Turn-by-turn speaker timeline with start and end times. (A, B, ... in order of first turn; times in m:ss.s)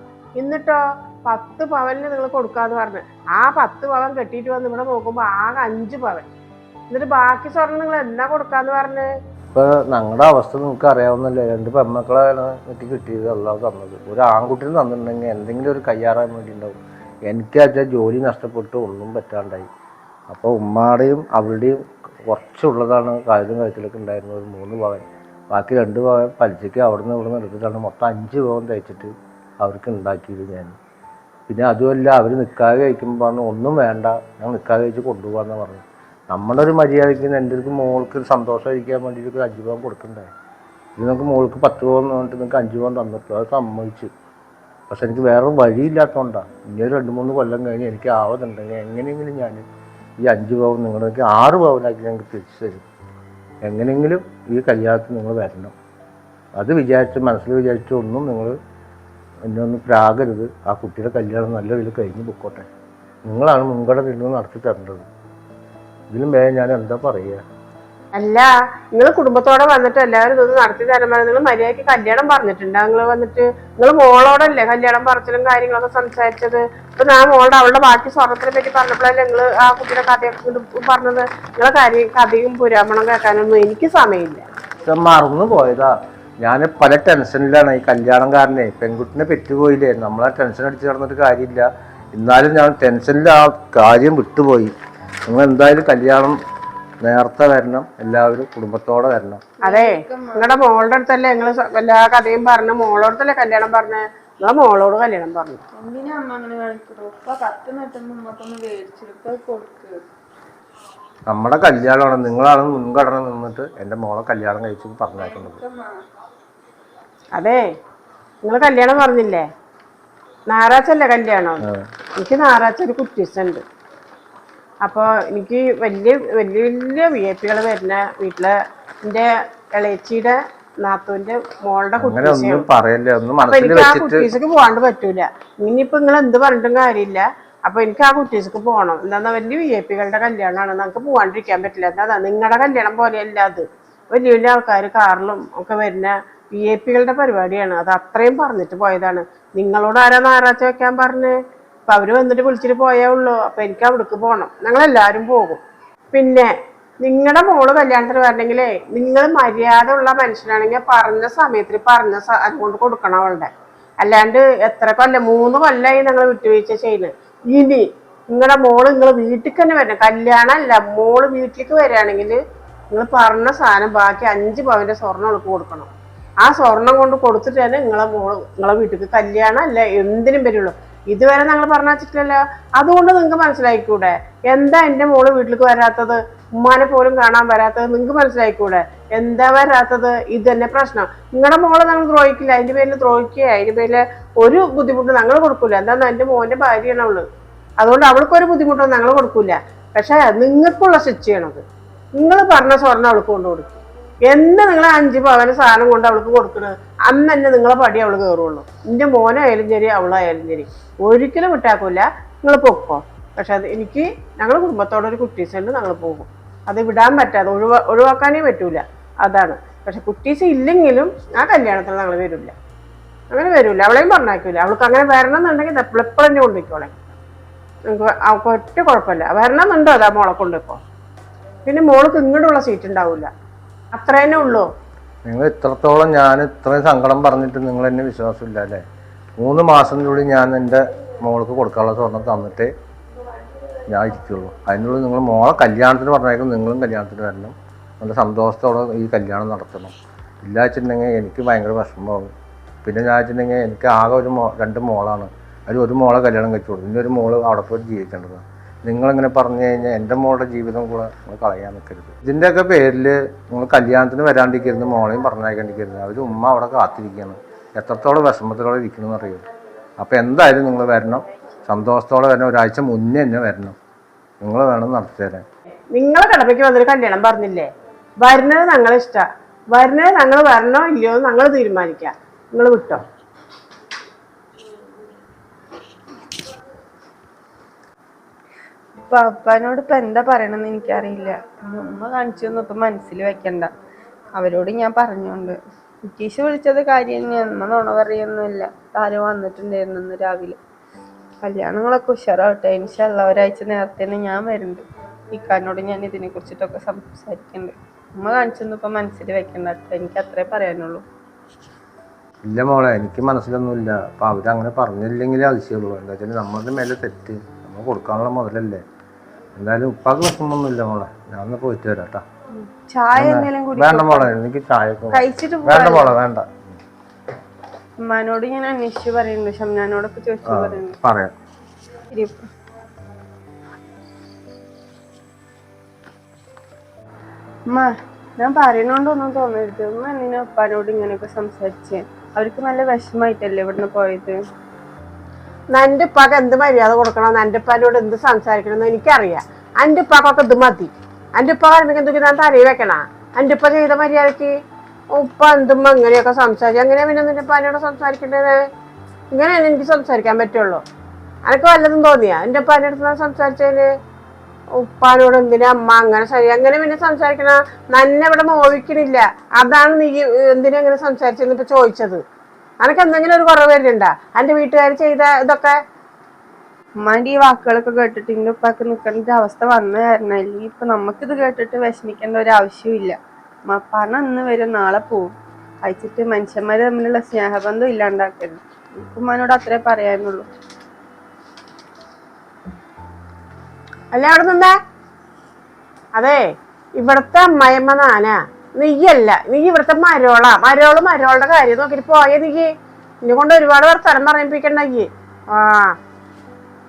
0:00.4-0:06.3 A
0:06.9-0:09.1 A
0:09.5-0:19.7 B
0:20.3-0:21.8 B
0:22.3-0:30.8 B
0:31.5-0:40.3 B
0:41.0-0:44.1 B
0:44.9-0:49.6 B
0:50.2-0:52.8 B
0:53.6-0:55.7 B
0:56.6-0:58.6 B
0:59.5-1:02.7 B
1:03.3-1:05.1 B
1:06.1-1:07.4 B
1:08.2-1:24.4 A
1:24.8-1:34.7 B
1:35.3-1:36.4 B
1:37.0-1:39.4 B
1:39.6-1:40.6 C
1:39.6-1:45.6 A
1:45.7-1:50.0 C
1:51.3-1:55.6 B
1:55.2-1:56.0 C
1:57.4-1:57.6 A
1:58.4-1:59.5 A
2:00.5-2:01.6 A
2:02.2-2:03.6 A
2:04.8-2:12.7 A
2:12.0-2:14.3 B
2:13.4-2:31.3 A
2:31.9-2:35.6 A
2:36.1-2:36.5 A
2:37.0-2:43.5 A
2:44.0-2:52.4 A
2:52.9-2:55.9 A
2:56.4-3:17.2 A
3:17.8-3:21.6 A
3:22.2-3:23.8 A
3:24.3-3:42.5 A
3:43.3-3:46.9 A
3:47.9-3:50.8 A
3:51.7-3:53.3 A
3:53.9-3:54.7 A
3:55.3-3:58.8 B
3:59.4-4:02.7 B
4:03.9-4:12.3 B
4:12.8-4:29.4 B
4:30.0-4:33.8 B
4:34.4-4:35.4 B
4:36.0-4:43.0 A
4:49.1-4:53.7 C
4:54.4-5:00.6 C
5:01.4-5:11.0 C
5:12.5-5:18.8 B
5:19.6-5:22.2 B
5:22.9-5:24.3 C
5:23.2-5:26.5 B
5:25.1-5:26.2 C
5:28.0-5:30.9 C
5:30.5-5:31.3 B
5:32.1-5:32.5 C
5:37.7-5:44.4 C
5:45.7-5:54.5 A
5:55.2-5:58.6 A
5:59.3-6:00.8 A
6:01.5-6:03.9 A
6:04.8-6:12.2 A
6:12.8-6:15.8 A
6:17.0-6:23.2 C
6:23.7-6:25.3 C
6:25.8-6:30.5 C
6:34.1-6:34.8 A
6:36.2-6:36.4 A
6:37.0-6:42.7 A
6:43.2-6:46.0 A